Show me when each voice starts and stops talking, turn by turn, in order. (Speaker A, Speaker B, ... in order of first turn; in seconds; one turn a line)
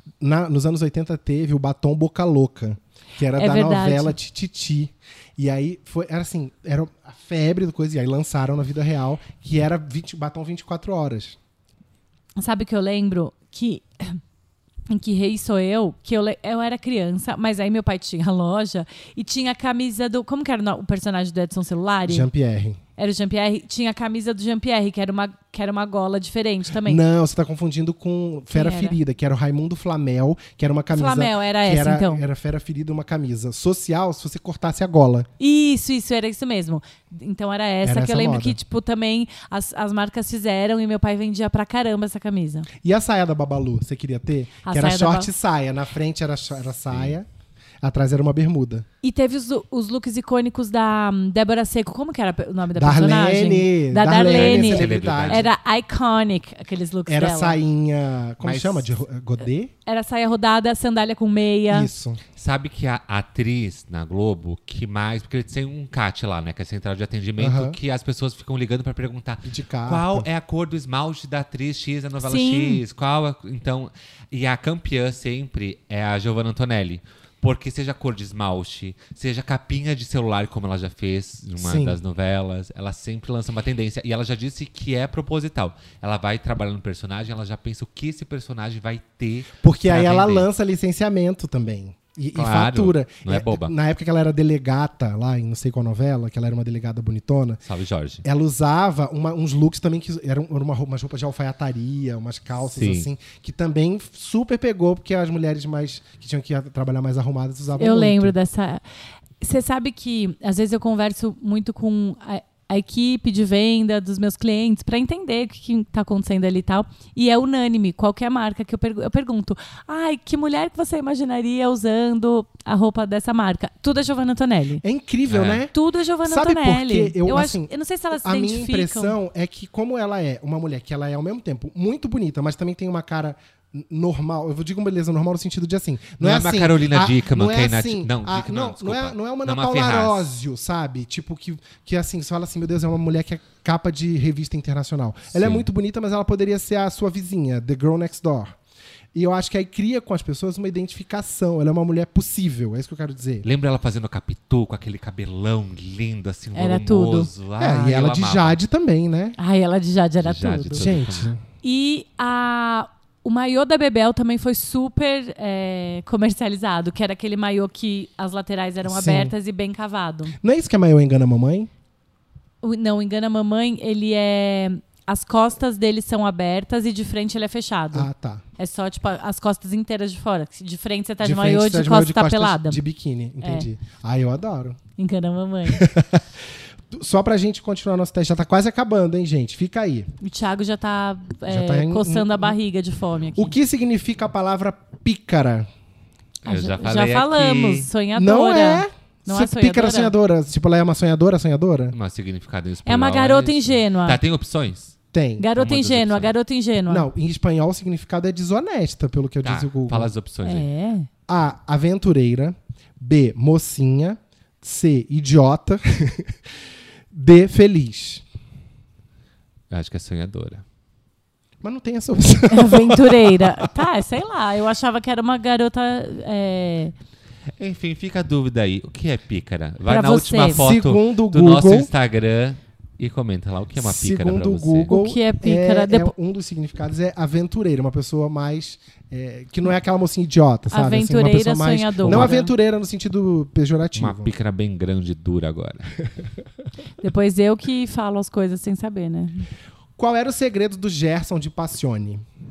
Speaker A: 0.2-11.4
Speaker B: 3.4-4.2
Speaker B: 12.4-14.2
Speaker B: 14.9-22.3
Speaker A: 22.1-22.8
Speaker B: 23.0-27.0
Speaker A: 26.8-35.3
Speaker B: 28.5-29.0
Speaker B: 30.9-32.2
Speaker B: 35.4-42.7
Speaker A: 37.8-38.6
Speaker A: 42.8-47.3
Speaker B: 44.6-45.3
Speaker A: 47.8-48.9
Speaker B: 49.0-57.6
Speaker A: 52.8-55.5
Speaker C: 54.3-55.5
Speaker A: 57.1-59.7
Speaker C: 58.4-58.9
Speaker B: 59.9-61.9
Speaker A: 61.7-62.2
Speaker C: 62.4-90.5
Speaker A: 67.4-67.8
Speaker A: 69.4-70.3
Speaker B: 72.2-72.8
Speaker A: 81.6-82.0
Speaker A: 89.6-97.6
Speaker C: 92.3-93.7
Speaker C: 97.7-98.2
Speaker A: 98.2-108.3
Speaker C: 102.7-103.1
Speaker B: 107.8-108.8
Speaker B: 109.4-124.8
Speaker A: 124.8-125.7
Speaker C: 125.3-125.6
Speaker B: 125.7-129.2
Speaker A: 126.2-148.6
Speaker C: 136.2-140.3
Speaker C: 145.3-145.7
Speaker A: 149.1-153.5
Speaker C: 153.4-158.6
Speaker B: 156.6-157.3
Speaker A: 157.6-159.4
Speaker B: 159.4-160.8
Speaker C: 160.2-161.3
Speaker A: 160.8-161.4
Speaker B: 161.6-170.3
Speaker A: 168.8-169.3
Speaker A: 170.4-171.7
Speaker B: 172.6-182.8
Speaker A: 177.9-178.4
Speaker A: 181.2-184.8
Speaker B: 183.4-183.7
Speaker B: 185.0-185.8
Speaker A: 185.7-190.1
Speaker B: 190.2-193.6
Speaker A: 191.5-192.6
Speaker A: 193.4-195.7
Speaker C: 196.4-197.9
Speaker B: 196.5-200.1
Speaker A: 198.1-201.9
Speaker C: 201.9-204.9
Speaker B: 202.9-204.2
Speaker A: 205.1-205.5
Speaker B: 205.4-207.1
Speaker C: 205.6-206.3
Speaker A: 206.9-210.1
Speaker C: 209.4-210.7
Speaker B: 210.4-211.1
Speaker A: 211.3-216.3
Speaker A: 217.1-218.2
Speaker C: 219.7-220.6
Speaker A: 221.6-223.8
Speaker B: 222.5-226.9
Speaker C: 227.6-234.9
Speaker B: 229.9-230.7
Speaker A: 230.5-231.9
Speaker A: 233.8-244.3
Speaker B: 234.9-236.1
Speaker B: 240.7-242.5
Speaker C: 242.1-242.3
Speaker C: 244.0-245.9
Speaker B: 247.0-249.5
Speaker A: 250.0-252.2